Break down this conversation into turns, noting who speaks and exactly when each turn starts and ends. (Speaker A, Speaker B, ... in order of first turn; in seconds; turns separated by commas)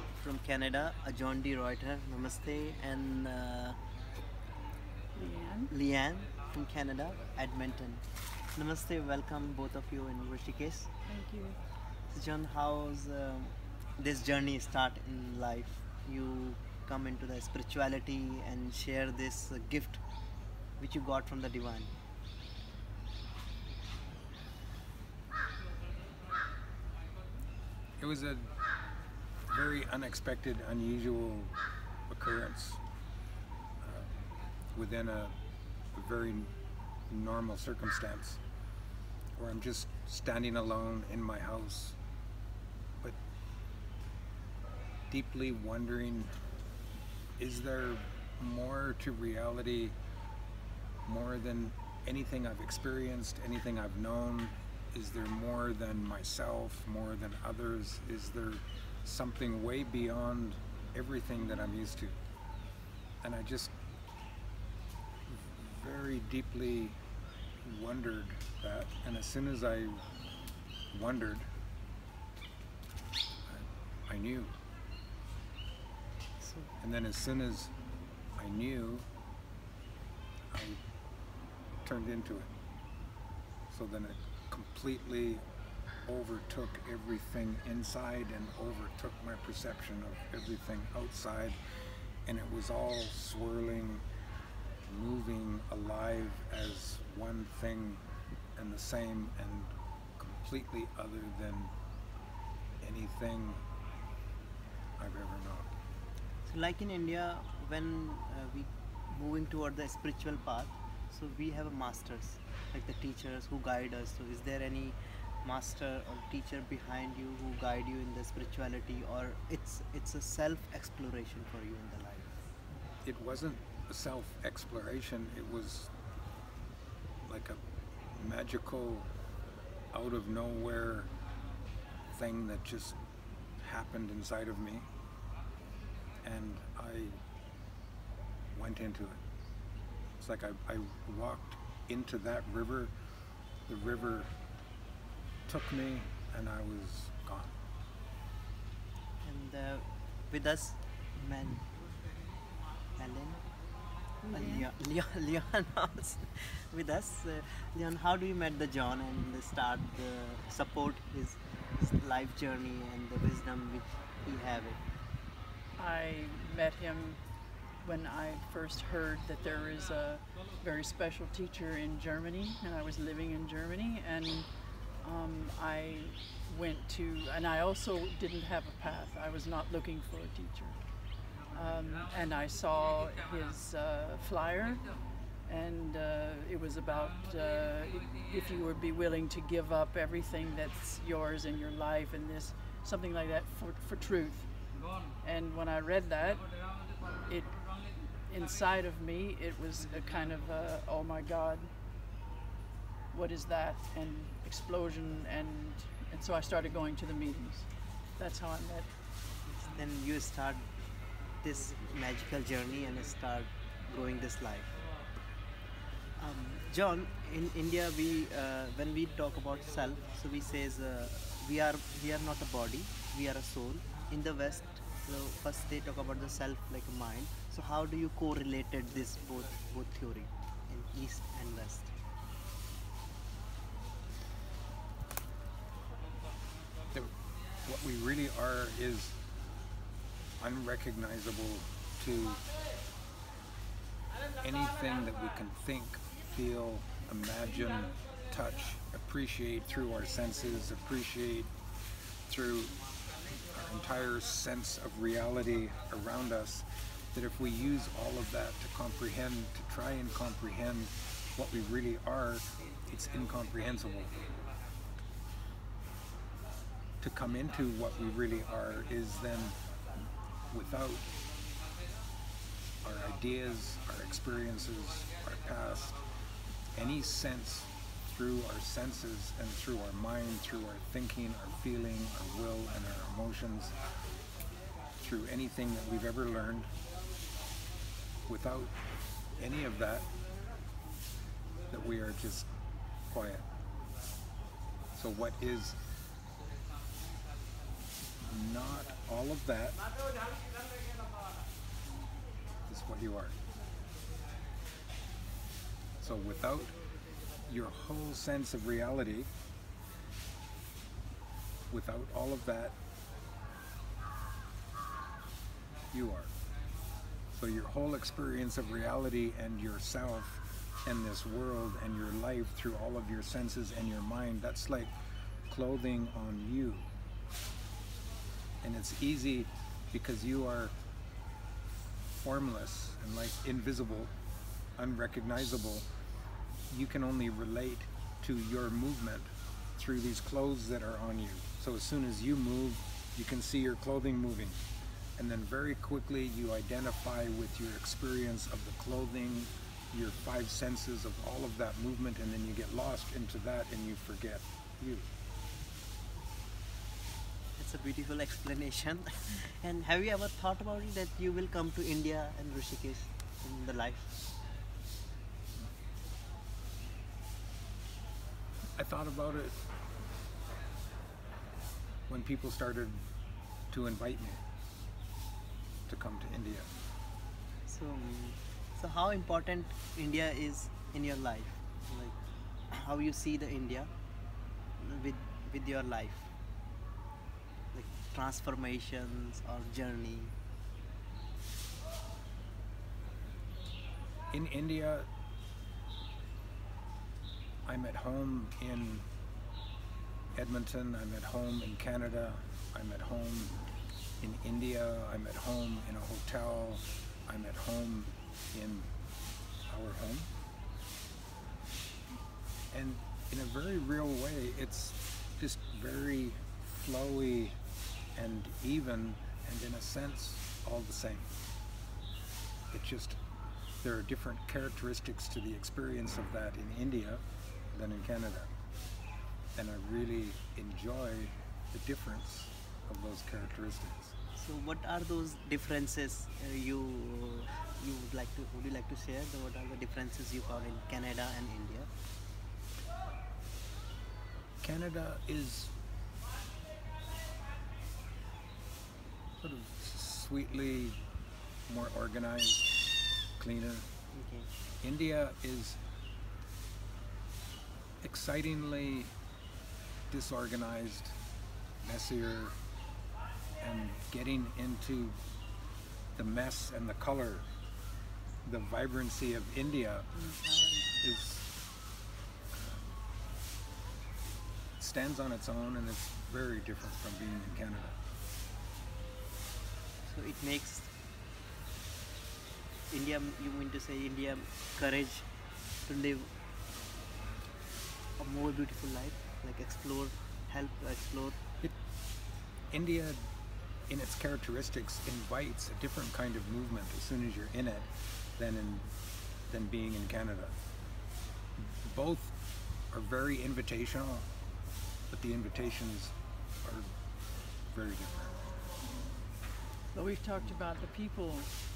Speaker A: 0.2-3.8, Speaker B: 5.1-5.7, Speaker A: 5.7-10.9, Speaker B: 11.0-11.6, Speaker A: 12.1-20.0, Speaker A: 20.8-21.9, Speaker C: 28.0-28.5, Speaker C: 29.5-31.6, Speaker C: 32.1-32.8, Speaker C: 33.8-34.2, Speaker C: 34.7-35.3, Speaker C: 35.9-36.5, Speaker C: 37.1-38.4, Speaker C: 39.4-42.0, Speaker C: 45.1-46.3, Speaker C: 47.4-50.0, Speaker C: 51.0-62.1, Speaker C: 63.2-63.7, Speaker C: 65.3-67.0, Speaker C: 67.6-70.0, Speaker C: 70.9-71.5, Speaker C: 73.5-74.5, Speaker A: 76.4-76.7, Speaker C: 76.8-77.7, Speaker C: 78.4-79.0, Speaker C: 80.5-80.8, Speaker C: 81.8-82.5, Speaker C: 83.7-85.4, Speaker C: 86.0-91.6, Speaker C: 92.2-94.0, Speaker C: 94.9-98.0, Speaker C: 98.5-101.7, Speaker C: 102.8-103.6, Speaker C: 105.0-105.8, Speaker A: 106.4-122.3, Speaker C: 123.0-125.9, Speaker C: 127.2-127.6, Speaker C: 128.2-129.1, Speaker C: 129.9-131.1, Speaker C: 132.1-133.0, Speaker C: 133.6-134.9, Speaker C: 136.2-137.2, Speaker C: 138.5-139.2, Speaker C: 140.2-142.9, Speaker C: 143.7-144.3, Speaker C: 145.5-147.5, Speaker A: 149.2-151.6, Speaker A: 153.0-153.4, Speaker B: 154.2-154.7, Speaker A: 154.3-164.8, Speaker B: 165.8-167.2, Speaker B: 167.8-174.5, Speaker B: 175.0-180.8, Speaker B: 181.5-184.8, Speaker B: 185.4-194.5, Speaker B: 195.2-196.5, Speaker B: 197.2-197.6, Speaker B: 198.2-201.7, Speaker B: 203.1-208.9, Speaker A: 209.6-210.7, Speaker A: 211.4-214.8, Speaker A: 216.2-231.9, Speaker C: 236.9-239.2, Speaker C: 240.4-242.4, Speaker C: 244.4-251.5, Speaker C: 252.2-252.8, Speaker C: 253.4-264.2, Speaker C: 267.0-269.6, Speaker C: 270.5-271.1, Speaker C: 272.8-276.0, Speaker C: 276.7-283.8, Speaker C: 285.0-286.7, Speaker C: 288.3-288.7, Speaker C: 289.4-290.1, Speaker C: 291.7-292.5, Speaker C: 293.1-293.4, Speaker C: 294.9-295.8, Speaker C: 298.2-299.8, Speaker C: 302.7-303.4, Speaker C: 306.0-306.8, Speaker C: 307.4-309.3, Speaker C: 311.7-312.7, Speaker C: 315.9-316.3, Speaker C: 317.3-324.9, Speaker C: 325.5-326.9, Speaker C: 328.6-330.7, Speaker C: 332.2-334.1, Speaker C: 334.8-335.9, Speaker C: 336.7-344.6, Speaker C: 345.2-355.1, Speaker A: 357.6-364.1, Speaker C: 368.8-369.6, Speaker C: 372.1-373.0, Speaker C: 373.7-374.4, Speaker C: 375.9-376.7, Speaker A: 377.7-382.1, Speaker A: 382.7-383.9, Speaker A: 384.8-386.3, Speaker A: 387.7-390.3, Speaker C: 394.3-395.1, Speaker C: 397.6-399.1, Speaker C: 400.4-403.6, Speaker C: 404.2-408.9, Speaker C: 409.7-410.3, Speaker C: 412.7-417.5, Speaker C: 418.1-421.3, Speaker C: 422.7-423.2, Speaker C: 423.8-427.2, Speaker C: 427.7-428.5, Speaker C: 429.6-434.1, Speaker A: 434.4-441.9, Speaker C: 444.6-445.7, Speaker C: 449.4-451.0, Speaker C: 451.7-452.7, Speaker C: 453.4-453.9, Speaker A: 454.1-454.5, Speaker C: 454.8-455.8, Speaker C: 458.0-459.1, Speaker C: 460.1-461.2, Speaker C: 461.8-462.6, Speaker C: 463.6-465.2, Speaker C: 466.1-467.5, Speaker C: 468.4-470.1, Speaker B: 470.1-471.0, Speaker C: 471.0-471.5, Speaker C: 472.5-473.0, Speaker C: 474.8-478.0, Speaker A: 480.1-480.9, Speaker A: 482.9-485.3, Speaker A: 485.9-486.3, Speaker A: 488.2-491.4, Speaker C: 492.7-493.2, Speaker C: 493.9-498.9, Speaker C: 499.5-500.6, Speaker C: 501.6-502.3, Speaker C: 502.9-504.3, Speaker C: 505.1-506.9, Speaker C: 507.7-508.4, Speaker B: 509.9-511.5